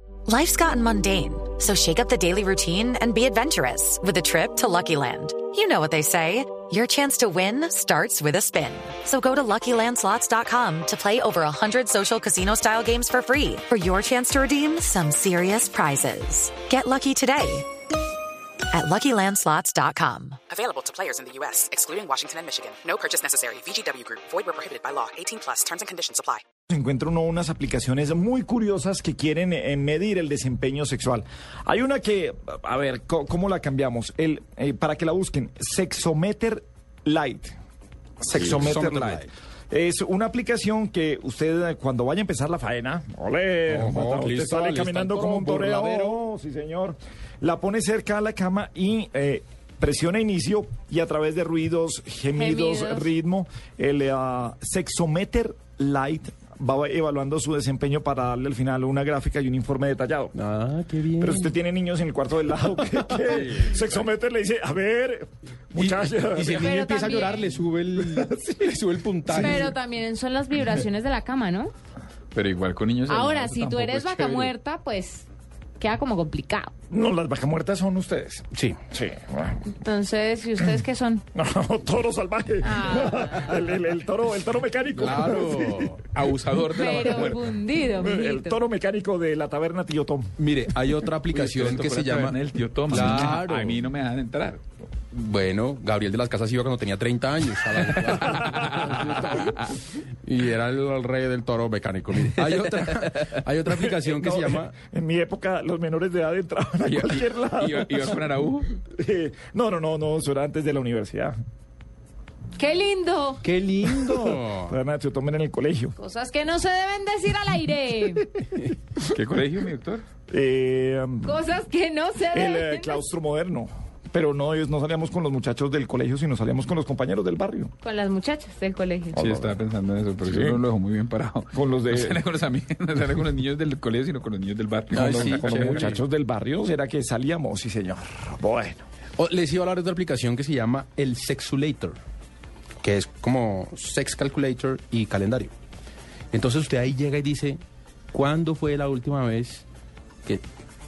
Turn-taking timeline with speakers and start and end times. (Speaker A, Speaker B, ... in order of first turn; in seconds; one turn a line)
Speaker A: 0.3-17.6
Speaker A: 18.7-20.4
Speaker B: 20.5-26.4
Speaker C: 26.7-37.6
Speaker C: 38.2-39.2
Speaker D: 38.3-39.3
Speaker E: 38.4-39.2
Speaker C: 39.7-60.3
Speaker D: 43.7-46.2
Speaker F: 52.3-53.1
Speaker D: 60.3-61.5
Speaker C: 61.2-66.6
Speaker D: 63.2-63.9
Speaker D: 65.7-69.7
Speaker F: 66.5-67.4
Speaker C: 68.0-68.7
Speaker C: 69.3-69.6
Speaker F: 69.3-71.7
Speaker E: 72.3-74.5
Speaker F: 73.1-75.3
Speaker F: 75.8-76.7
Speaker C: 76.9-79.7
Speaker D: 78.5-78.8
Speaker F: 79.7-81.2
Speaker C: 81.3-85.9
Speaker F: 82.6-83.5
Speaker D: 85.0-86.2
Speaker E: 86.2-87.4
Speaker F: 86.7-88.6
Speaker C: 87.9-90.3
Speaker D: 90.4-93.8
Speaker E: 91.3-94.6
Speaker D: 95.1-104.7
Speaker E: 98.1-99.0
Speaker C: 103.7-108.2
Speaker E: 106.8-108.7
Speaker C: 108.9-111.3
Speaker F: 112.5-113.4
Speaker D: 113.4-114.8
Speaker C: 113.8-116.0
Speaker F: 116.0-118.2
Speaker E: 119.1-120.0
Speaker C: 120.3-121.4
Speaker F: 121.2-123.0
Speaker C: 122.3-127.7
Speaker F: 127.8-129.2
Speaker C: 129.1-129.6
Speaker E: 129.2-135.9
Speaker C: 130.2-130.6
Speaker C: 131.5-132.2
Speaker D: 134.9-136.0
Speaker C: 135.2-138.8
Speaker D: 139.2-142.0
Speaker D: 142.8-145.5
Speaker D: 146.3-147.6
Speaker D: 148.1-149.6